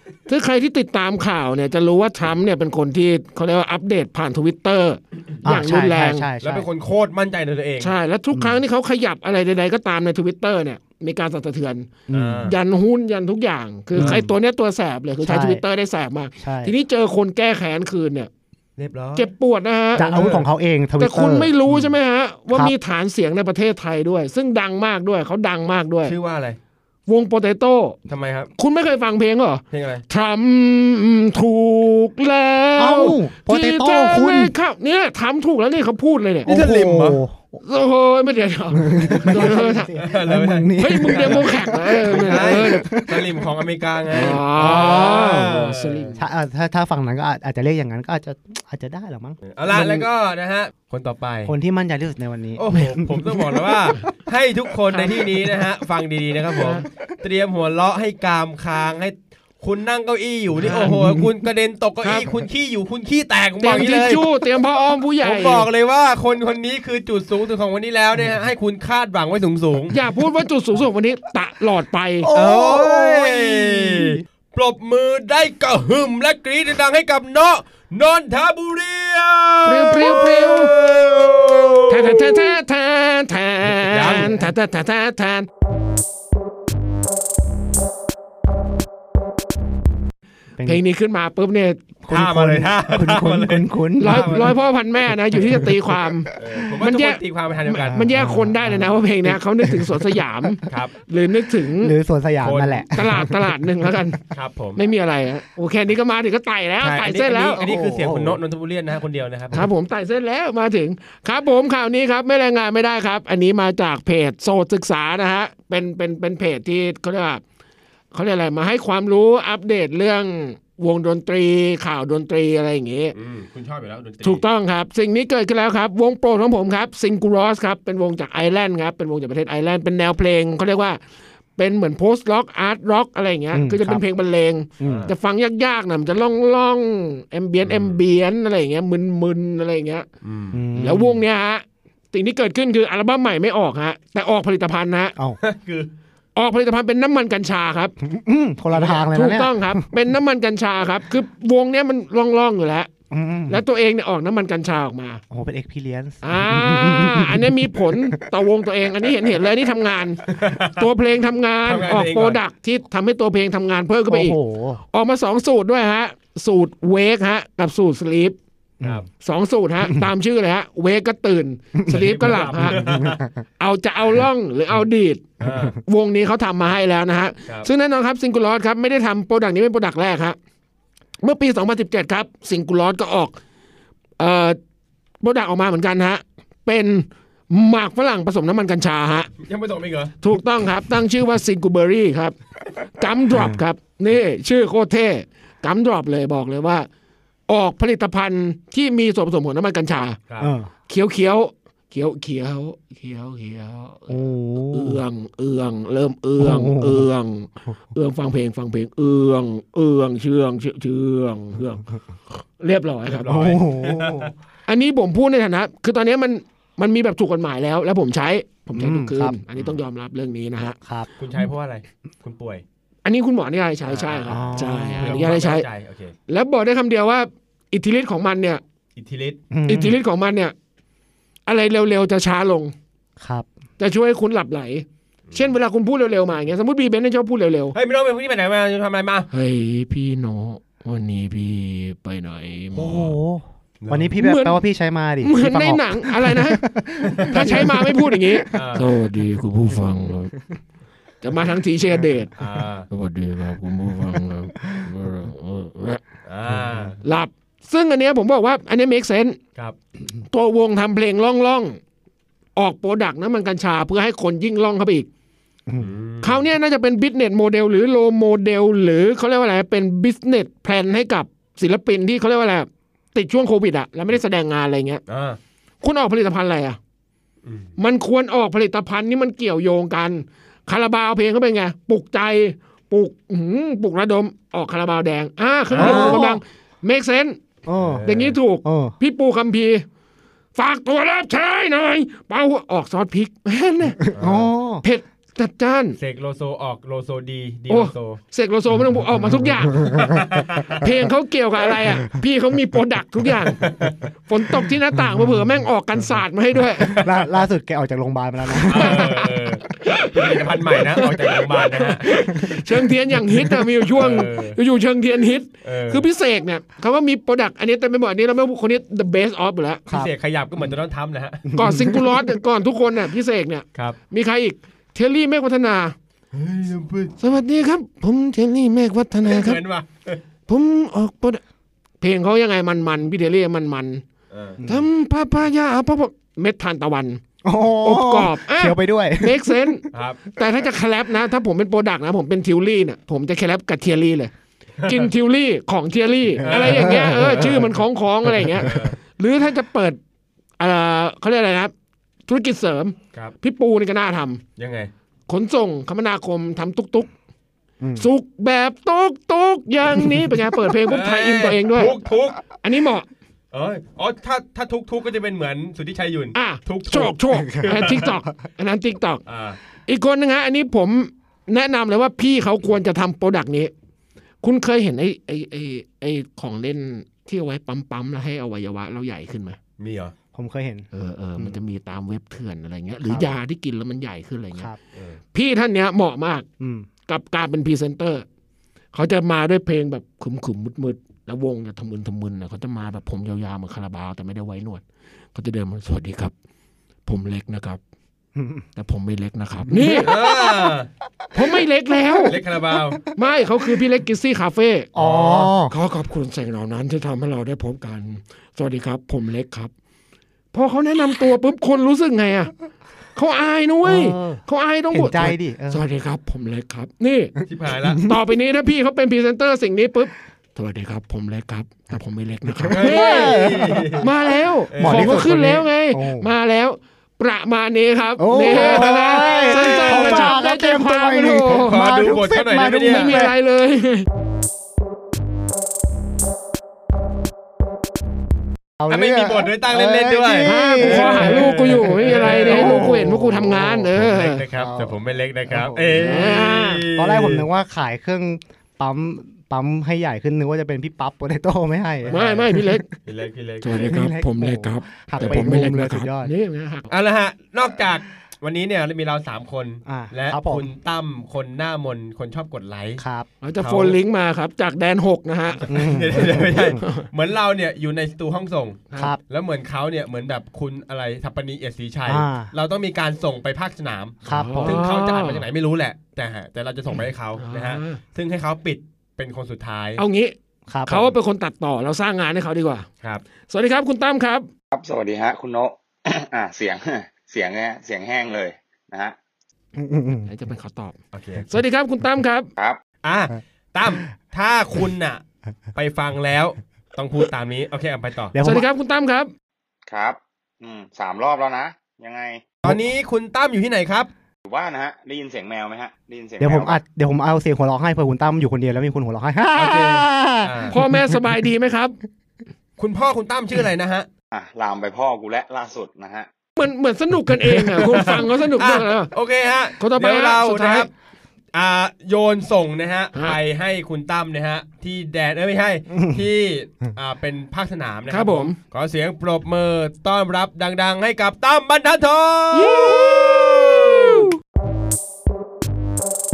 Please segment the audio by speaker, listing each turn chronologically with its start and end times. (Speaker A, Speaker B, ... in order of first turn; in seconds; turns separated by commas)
Speaker A: 0.3-6.3, Speaker B: 5.4-6.7, Speaker C: 6.4-7.9, Speaker A: 7.8-11.9, Speaker B: 8.3-8.6, Speaker B: 12.1-12.5, Speaker C: 12.1-12.5, Speaker A: 12.5-18.3, Speaker B: 13.9-14.3, Speaker C: 14.0-14.2, Speaker B: 15.2-15.6, Speaker B: 16.4-16.7, Speaker C: 18.8-19.3, Speaker A: 19.1-20.2, Speaker B: 20.0-21.9, Speaker C: 20.0-20.4, Speaker A: 21.0-26.1, Speaker C: 26.1-26.6, Speaker A: 27.1-28.0, Speaker C: 28.1-28.5, Speaker A: 28.6-36.5, Speaker C: 29.7-30.0, Speaker B: 32.8-34.5, Speaker C: 36.5-37.2, Speaker B: 36.5-37.6, Speaker A: 37.6-40.0, Speaker B: 38.8-43.5, Speaker C: 39.1-46.2, Speaker A: 40.8-42.9, Speaker A: 44.1-46.2, Speaker B: 46.2-50.1, Speaker C: 49.5-51.5, Speaker B: 51.5-53.7, Speaker C: 52.6-64.3, Speaker A: 54.9-55.2, Speaker A: 56.5-56.9, Speaker A: 60.6-61.0, Speaker B: 60.7-61.3, Speaker A: 62.0-62.3, Speaker A: 63.6-65.7, Speaker C: 65.2-70.0, Speaker A: 69.9-72.3, Speaker B: 72.2-74.2, Speaker C: 72.3-82.5, Speaker A: 79.7-80.7, Speaker A: 81.9-85.5, Speaker C: 83.7-84.4, Speaker A: 90.6-91.8, Speaker B: 92.0-94.5, Speaker C: 92.1-94.6, Speaker A: 94.0-101.9, Speaker B: 95.3-95.7, Speaker C: 96.3-98.2, Speaker B: 97.9-100.5, Speaker C: 100.7-101.0, Speaker B: 101.6-103.9, Speaker C: 102.4-102.9, Speaker A: 102.9-104.2, Speaker C: 104.3-104.8, Speaker A: 104.8-107.6, Speaker C: 106.8-109.6, Speaker B: 107.6-108.4, Speaker A: 109.5-117.4, Speaker A: 118.1-123.2, Speaker C: 123.2-124.4, Speaker A: 124.2-131.0, Speaker A: 131.6-140.1, Speaker B: 133.5-134.0, Speaker B: 134.8-135.1, Speaker C: 134.8-135.1, Speaker C: 137.6-138.0, Speaker C: 140.2-140.6, Speaker B: 140.5-141.2, Speaker A: 140.7-145.2, Speaker C: 145.4-145.9, Speaker A: 146.3-147.9, Speaker B: 148.0-149.9, Speaker C: 148.7-149.0, Speaker A: 149.1-152.9, Speaker B: 153.1-153.6, Speaker A: 153.5-155.2, Speaker B: 155.3-158.3, Speaker A: 156.2-164.4, Speaker C: 160.3-160.9, Speaker C: 161.7-162.4, Speaker B: 164.1-164.8, Speaker A: 164.9-168.4, Speaker A: 169.2-172.8, Speaker C: 171.9-173.2, Speaker B: 172.6-173.3, Speaker A: 173.6-180.4, Speaker C: 175.4-175.8, Speaker A: 181.2-183.4, Speaker A: 184.2-184.6, Speaker A: 185.2-189.3, Speaker C: 189.4-190.2, Speaker A: 190.2-192.4, Speaker A: 192.9-196.9, Speaker B: 193.3-193.6, Speaker A: 197.5-200.2, Speaker C: 200.3-200.5, Speaker B: 200.4-200.7, Speaker A: 200.9-213.3, Speaker B: 204.1-205.0, Speaker B: 206.4-207.1, Speaker C: 213.1-214.3, Speaker B: 213.3-214.3, Speaker A: 214.7-220.8, Speaker B: 218.7-219.4, Speaker B: 220.8-221.1, Speaker C: 221.2-222.6, Speaker A: 223.1-225.7, Speaker C: 224.0-226.1, Speaker B: 224.3-225.3, Speaker A: 226.3-228.6, Speaker C: 229.0-229.4, Speaker B: 229.5-230.0, Speaker A: 229.7-230.6, Speaker A: 231.5-232.7, Speaker B: 233.2-233.5, Speaker A: 233.8-237.8, Speaker C: 237.7-239.3, Speaker A: 239.3-243.2, Speaker B: 242.7-248.8, Speaker C: 243.8-244.1, Speaker A: 244.2-244.6, Speaker A: 245.2-246.7, Speaker C: 247.0-247.7, Speaker A: 247.2-250.4, Speaker C: 248.5-248.9, Speaker A: 251.2-252.3, Speaker C: 252.4-252.9, Speaker A: 252.9-256.0, Speaker B: 254.6-254.9, Speaker C: 256.3-257.0, Speaker B: 256.5-256.9, Speaker A: 257.0-259.4, Speaker A: 260.3-261.8, Speaker A: 262.6-265.1, Speaker C: 265.8-266.4, Speaker A: 266.2-275.0, Speaker C: 275.1-275.4, Speaker A: 275.8-276.8, Speaker C: 277.4-277.7, Speaker A: 277.8-287.4, Speaker C: 285.7-286.2, Speaker B: 285.8-286.4, Speaker B: 287.6-288.1, Speaker C: 287.8-288.4, Speaker A: 288.0-289.9, Speaker B: 288.6-288.9, Speaker A: 290.6-294.0, Speaker B: 294.1-294.8, Speaker C: 294.1-294.5, Speaker A: 294.8-296.0, Speaker C: 296.0-298.2, Speaker A: 297.7-300.0, Speaker B: 299.8-300.2, Speaker C: 299.9-300.9, Speaker A: 300.8-303.6, Speaker C: 303.6-304.0, Speaker A: 304.3-307.1, Speaker B: 306.8-309.4, Speaker C: 308.6-312.6, Speaker A: 308.7-319.9, Speaker B: 312.1-312.8, Speaker B: 313.3-313.7, Speaker C: 313.9-314.6, Speaker C: 315.6-316.1, Speaker B: 319.9-320.7, Speaker C: 319.9-321.6, Speaker B: 321.5-322.3, Speaker A: 321.6-325.9, Speaker C: 326.3-327.1, Speaker A: 327.2-329.6, Speaker C: 329.2-330.2, Speaker A: 330.5-331.4, Speaker A: 332.0-334.0, Speaker C: 334.3-334.6, Speaker B: 334.6-334.9, Speaker A: 334.6-337.2, Speaker B: 337.4-339.9, Speaker A: 337.8-344.3, Speaker C: 339.9-340.2, Speaker C: 344.8-345.1, Speaker A: 344.8-350.0, Speaker C: 346.4-347.7, Speaker B: 346.5-347.6, Speaker C: 348.6-349.0, Speaker A: 350.6-351.7, Speaker A: 352.3-354.4, Speaker C: 354.6-354.9, Speaker A: 355.3-357.1, Speaker B: 357.8-358.1, Speaker A: 358.0-361.9, Speaker B: 360.0-360.3, Speaker C: 360.9-362.5, Speaker A: 362.6-363.1, Speaker C: 363.5-368.1, Speaker A: 366.3-369.2, Speaker B: 367.3-368.2, Speaker C: 369.3-369.6, Speaker A: 369.9-373.7, Speaker A: 374.4-379.6, Speaker C: 379.8-380.1, Speaker B: 380.3-381.6, Speaker A: 380.9-384.7, Speaker B: 383.1-383.3, Speaker A: 385.3-386.5, Speaker B: 386.6-386.9, Speaker A: 387.1-388.3, Speaker A: 388.9-394.8, Speaker A: 395.3-396.3, Speaker A: 397.1-397.8, Speaker B: 398.4-398.6, Speaker A: 398.8-400.5, Speaker B: 399.7-400.1, Speaker C: 400.0-400.9, Speaker A: 401.3-402.4, Speaker C: 402.3-403.0, Speaker A: 403.1-404.9, Speaker B: 404.9-405.7, Speaker C: 404.9-405.5, Speaker A: 405.7-409.7, Speaker A: 410.5-412.5, Speaker A: 413.1-417.4, Speaker B: 413.8-415.8, Speaker C: 417.5-418.1, Speaker B: 417.9-418.1, Speaker A: 418.0-431.8, Speaker B: 422.5-424.1, Speaker C: 422.7-424.1, Speaker C: 424.7-425.3, Speaker B: 424.8-426.3, Speaker B: 428.2-433.4, Speaker C: 428.4-430.4, Speaker C: 431.5-433.2, Speaker A: 432.9-434.1, Speaker B: 438.8-443.9, Speaker C: 438.9-443.1, Speaker A: 440.4-444.4, Speaker C: 443.9-447.5, Speaker B: 444.5-452.7, Speaker A: 446.0-446.8, Speaker C: 452.0-453.9, Speaker A: 452.1-452.9, Speaker A: 453.6-456.9, Speaker B: 453.8-456.3, Speaker C: 455.2-455.5, Speaker C: 456.9-463.0, Speaker B: 459.9-460.7, Speaker B: 463.0-463.3, Speaker A: 463.4-465.7, Speaker C: 463.6-464.0, Speaker C: 465.7-480.0, Speaker B: 465.7-466.8, Speaker A: 466.8-467.1, Speaker B: 472.1-472.5, Speaker B: 474.2-474.8, Speaker A: 474.3-475.4, Speaker A: 477.4-478.0, Speaker A: 480.0-480.3, Speaker B: 480.7-481.1, Speaker A: 480.9-482.9, Speaker A: 483.5-484.5, Speaker D: 484.7-489.1, Speaker B: 489.8-490.3, Speaker A: 490.3-492.5, Speaker C: 491.1-491.5, Speaker C: 493.0-495.2, Speaker C: 495.8-498.4, Speaker B: 498.3-498.7, Speaker A: 498.4-499.3, Speaker D: 499.9-502.5, Speaker C: 502.6-504.1, Speaker D: 504.5-506.8, Speaker B: 506.4-511.2, Speaker C: 509.6-510.8, Speaker A: 510.7-512.0, Speaker C: 512.8-514.1, Speaker D: 514.3-516.3, Speaker A: 516.6-519.1, Speaker C: 517.6-520.9, Speaker A: 519.8-520.9, Speaker C: 521.5-534.3, Speaker A: 528.1-528.6, Speaker A: 532.5-534.3